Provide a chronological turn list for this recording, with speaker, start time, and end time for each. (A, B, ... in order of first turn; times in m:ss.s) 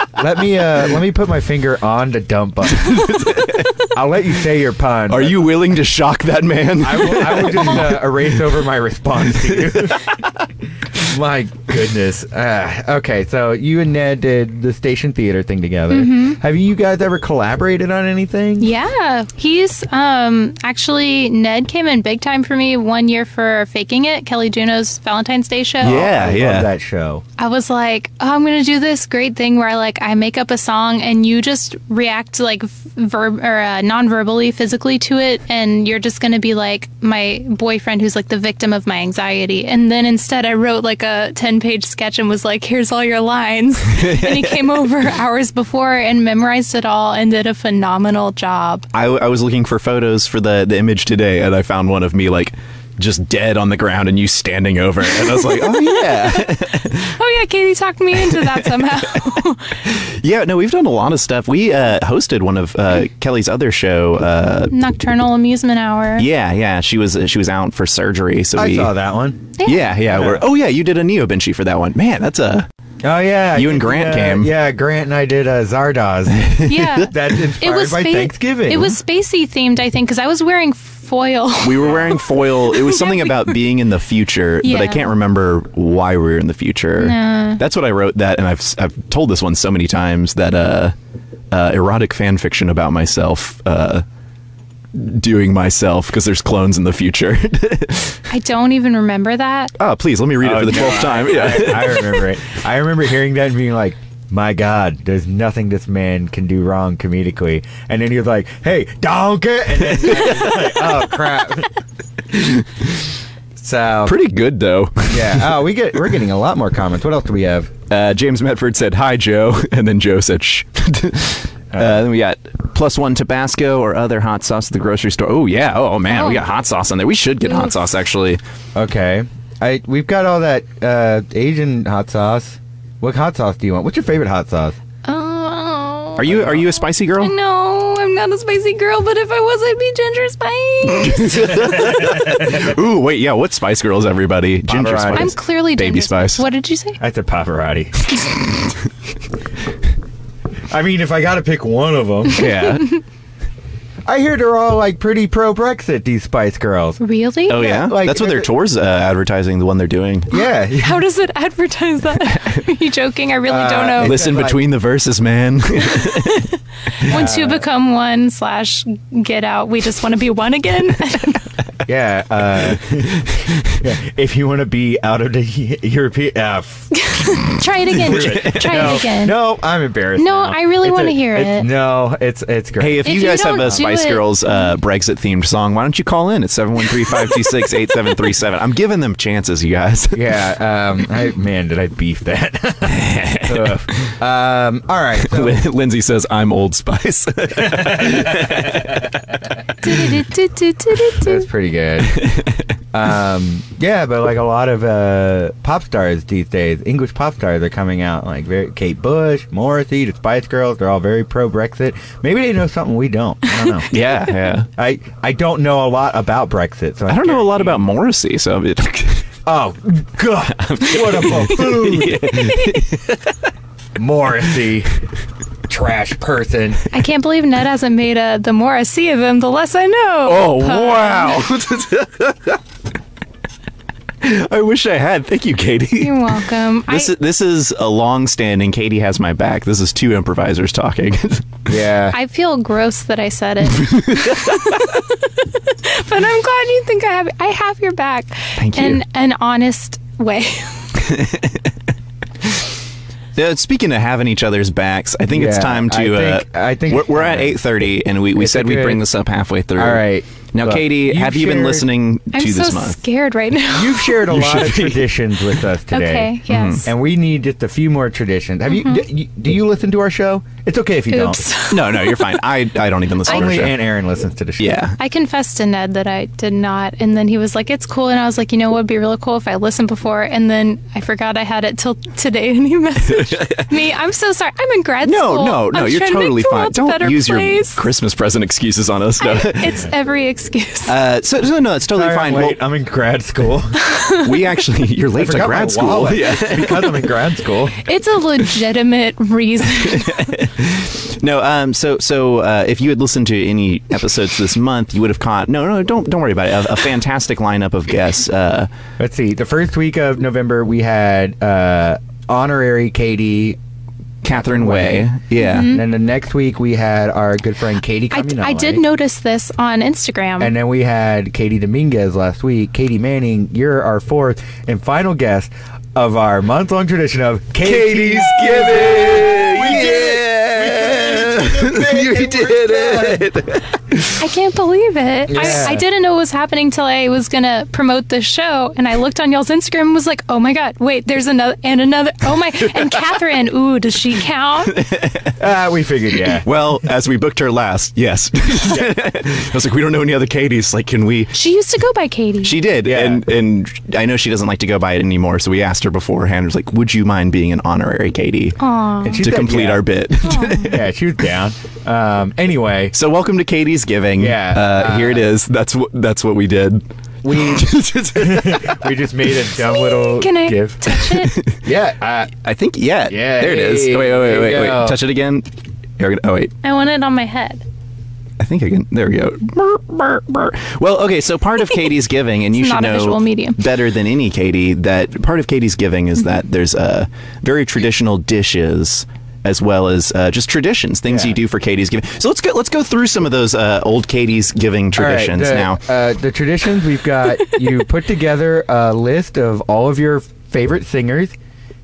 0:00.2-0:03.2 A
0:02.8-0:03.7 B
0:03.9-0:05.5 A
0:05.1-0:08.2 B
0:06.8-0:10.2 A
0:09.4-0:10.2 B
0:11.0-0:18.7 A
0:15.9-0:16.4 C
0:18.6-0:25.9 C
0:25.8-0:26.7 B
0:25.8-0:27.2 A
0:27.4-0:48.9 C
0:43.9-0:44.9 B
0:48.9-0:57.1 B
0:55.6-0:56.5 C
0:57.1-0:59.8 C
0:58.2-0:58.9 B
0:59.8-1:04.7 B
1:04.7-1:06.2 C
1:06.2-1:08.9 B
1:08.6-1:09.5 A
1:09.6-1:09.8 C
1:09.6-1:12.6 B
1:10.1-1:10.4 A
1:13.0-1:19.0 A
1:13.5-1:14.5 B
1:16.3-1:17.0 B
1:16.6-1:23.5 C
1:21.6-1:30.9 B
1:24.6-1:25.0 C
1:27.0-1:27.6 C
1:31.5-1:34.0 B
1:34.9-1:38.2 B
1:38.3-1:39.7 C
1:39.8-1:42.3 B
1:40.4-1:51.7 A
1:50.0-1:50.9 B
1:52.3-1:53.1 B
1:53.6-1:54.2 A
1:54.0-1:55.6 B
1:55.1-1:57.7 A
1:57.9-2:08.4 B
2:01.7-2:02.0 A
2:06.1-2:06.4 C
2:07.5-2:07.7 C
2:08.7-2:14.8 A
2:15.0-2:16.4 C
2:16.2-2:17.3 B
2:16.3-2:16.6 A
2:17.2-2:21.7 C
2:21.0-2:26.5 B
2:21.6-2:22.6 A
2:24.6-2:25.3 A
2:25.1-2:27.0 C
2:27.0-2:28.1 A
2:30.7-2:32.9 A
2:34.0-2:38.5 A
2:37.0-2:37.6 C
2:37.5-2:40.3 B
2:40.3-2:41.0 A
2:40.8-2:44.2 C
2:42.3-2:42.6 B
2:43.5-2:44.6 A
2:44.0-2:46.5 B
2:45.9-2:46.4 C
2:47.0-2:51.5 C
2:47.0-2:47.6 A
2:51.8-2:53.3 A
2:53.8-2:56.9 A
2:56.9-2:59.4 C
2:57.9-3:03.8 A
2:58.0-2:59.0 B
3:00.2-3:01.7 C
3:02.8-3:10.2 B
3:03.0-3:04.7 C
3:07.1-3:07.5 C
3:10.1-3:15.6 A
3:12.9-3:14.1 B
3:15.2-3:19.2 B
3:17.6-3:18.9 A
3:19.8-3:21.4 C
3:21.2-3:22.3 A
3:22.0-3:22.6 B
3:22.9-3:33.9 A
3:33.9-3:34.7 B
3:34.8-3:37.8 A
3:37.1-3:39.2 B
3:39.4-3:42.6 A
3:40.5-3:43.3 B
3:44.0-3:44.9 A
3:45.7-3:46.9 A
3:46.9-3:51.4 C
3:50.2-3:52.6 B
3:54.2-3:56.3 B
3:56.0-3:57.1 C
3:56.9-4:01.6 B
4:01.7-4:02.2 A
4:02.1-4:11.0 C
4:03.7-4:04.9 B
4:08.6-4:09.0 B
4:11.0-4:11.7 B
4:13.4-4:23.0 B
4:15.3-4:17.6 A
4:18.3-4:19.0 A
4:19.8-4:21.9 A
4:22.3-4:24.2 C
4:23.7-4:31.4 A
4:24.2-4:25.2 B
4:25.9-4:26.9 C
4:26.5-4:26.8 B
4:28.7-4:29.0 C
4:31.1-4:32.4 C
4:31.7-4:33.8 B
4:33.2-4:34.8 A
4:34.6-4:35.0 B
4:35.0-4:47.8 C
4:43.2-4:43.6 B
4:45.0-4:49.8 B
4:49.2-4:50.9 C
4:50.9-4:52.6 B
4:51.9-4:53.8 A
4:53.8-4:54.3 C
4:54.1-4:57.1 B
4:55.2-4:57.8 A
4:57.8-5:00.3 C
4:59.8-5:08.7 B
5:09.0-5:13.6 A
5:14.2-5:15.7 B
5:14.3-5:18.8 A
5:15.4-5:15.8 C
5:18.1-5:20.5 C
5:20.4-5:33.2 A
5:27.6-5:34.2 B
5:34.2-5:44.8 C
5:35.3-5:35.8 A
5:35.4-5:35.7 B
5:44.7-5:45.3 B
5:45.4-5:46.5 A
5:46.3-5:51.3 B
5:51.3-5:52.5 C
5:52.4-5:58.6 B
5:52.8-5:53.2 A
5:58.6-5:59.2 C
5:59.0-5:59.8 A
5:59.2-6:00.8 B
6:00.2-6:00.7 C
6:00.6-6:02.9 A
6:02.9-6:08.8 B
6:04.2-6:05.3 A
6:07.2-6:11.0 A
6:09.6-6:11.4 C
6:11.0-6:11.6 B
6:11.6-6:12.3 A
6:12.4-6:15.4 B
6:13.1-6:15.0 A
6:16.0-6:16.5 B
6:16.6-6:17.6 C
6:18.4-6:35.8 B
6:22.5-6:23.6 C
6:31.1-6:31.4 A
6:34.9-6:41.3 A